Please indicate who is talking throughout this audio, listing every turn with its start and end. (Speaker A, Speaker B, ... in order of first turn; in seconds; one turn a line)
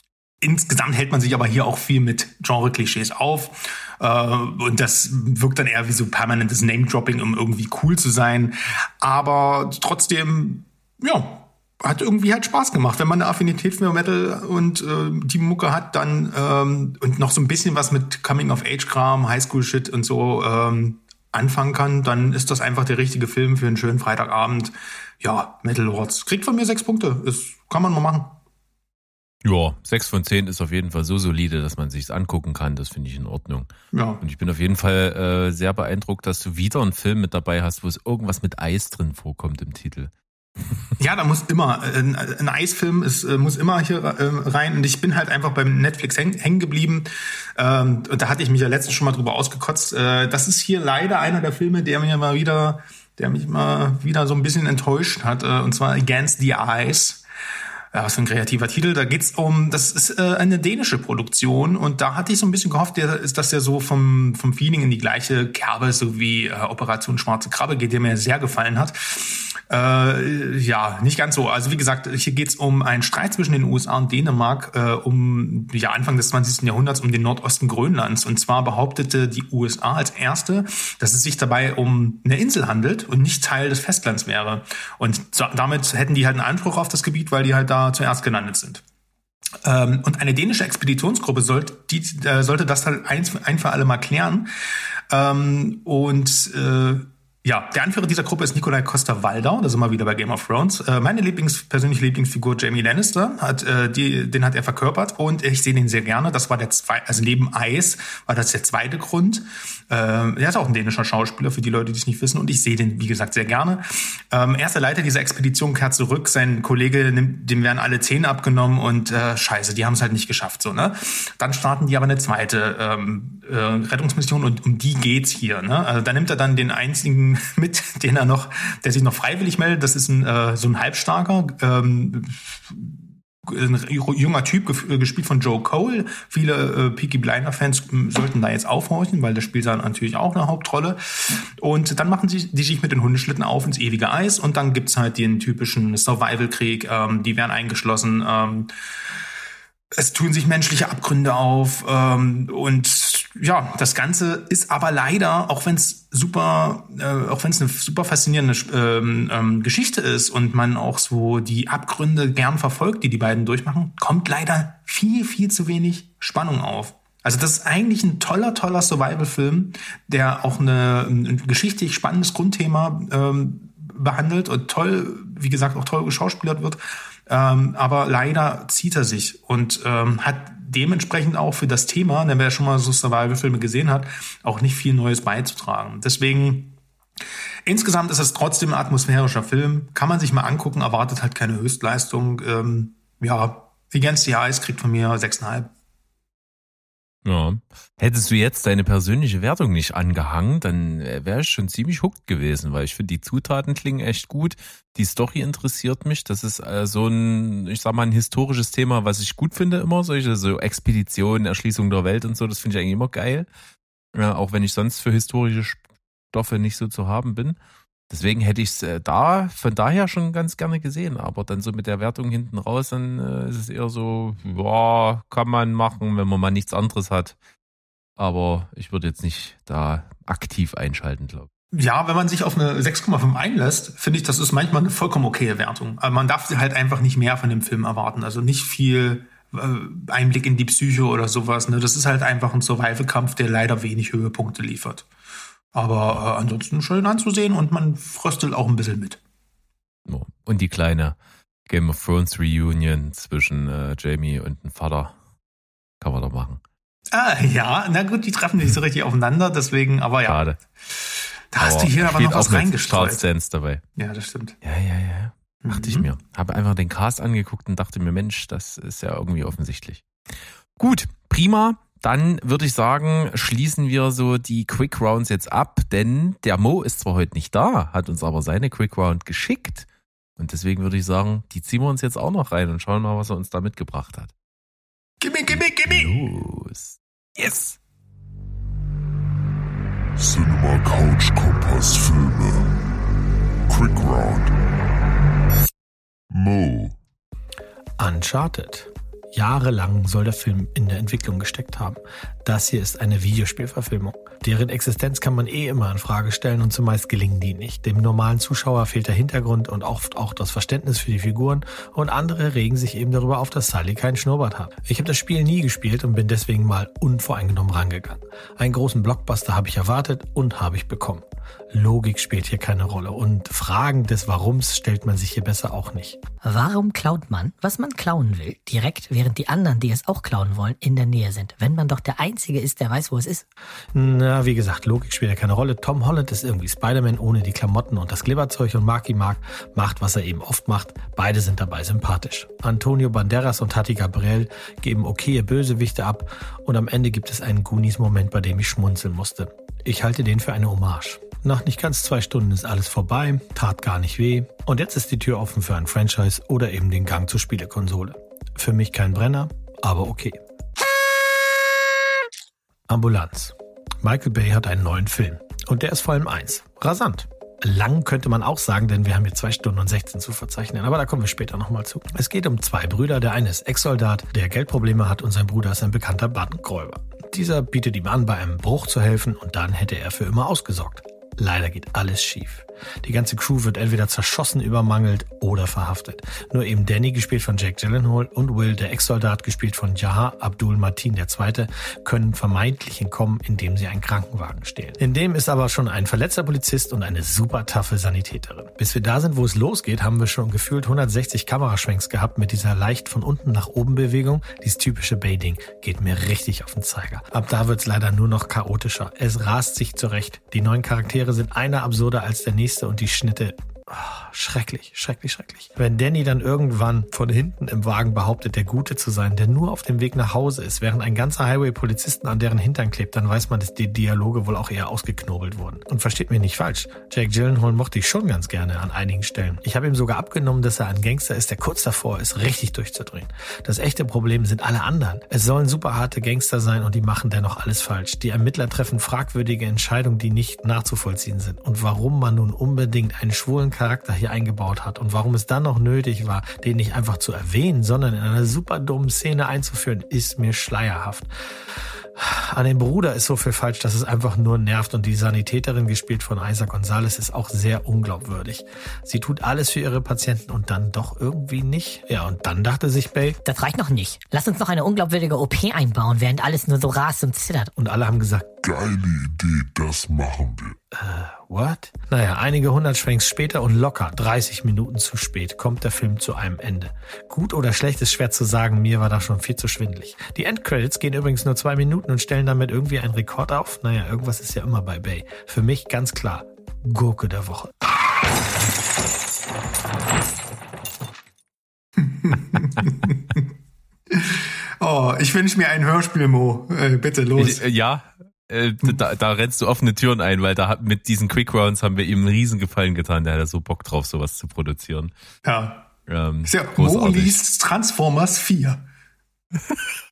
Speaker A: 0.4-28.4
Speaker B: 29.4-40.1
Speaker A: 33.9-34.2
Speaker A: 41.0-57.2
Speaker A: 57.9-88.8
Speaker A: 89.6-94.5
Speaker A: 95.1-148.7
Speaker A: 149.9-186.8
Speaker A: 187.7-195.7
Speaker B: 197.2-213.5
Speaker B: 214.1-215.8
Speaker B: 216.3-217.6
Speaker B: 218.1-227.4
Speaker B: 228.2-231.5
Speaker A: 231.7-245.1
Speaker A: 245.7-249.2
Speaker B: 250.1-251.2
Speaker B: 251.7-255.2
Speaker B: 256.0-256.6
Speaker A: 257.1-260.4
Speaker B: 260.2-260.6
Speaker A: 261.5-263.3
Speaker B: 261.6-263.8
Speaker A: 264.0-264.6
Speaker B: 264.6-270.0
Speaker A: 265.6-266.1
Speaker B: 270.8-279.9
Speaker B: 280.4-284.3
Speaker A: 285.2-286.2
Speaker B: 285.5-287.8
Speaker C: 290.2-292.8
Speaker C: 293.7-294.5
Speaker C: 296.3-297.0
Speaker D: 298.0-326.2
Speaker E: 326.4-333.4
Speaker D: 333.9-360.4
Speaker D: 362.9-451.3
Speaker D: 452.2-463.4
Speaker E: 463.4-467.8
Speaker D: 467.8-468.6
Speaker C: 468.6-470.8
Speaker D: 470.9-487.9
Speaker A: 492.0-493.4
Speaker A: 494.1-497.6
Speaker B: 497.4-505.1
Speaker A: 505.4-505.9
Speaker B: 506.1-507.4
Speaker A: 506.5-508.9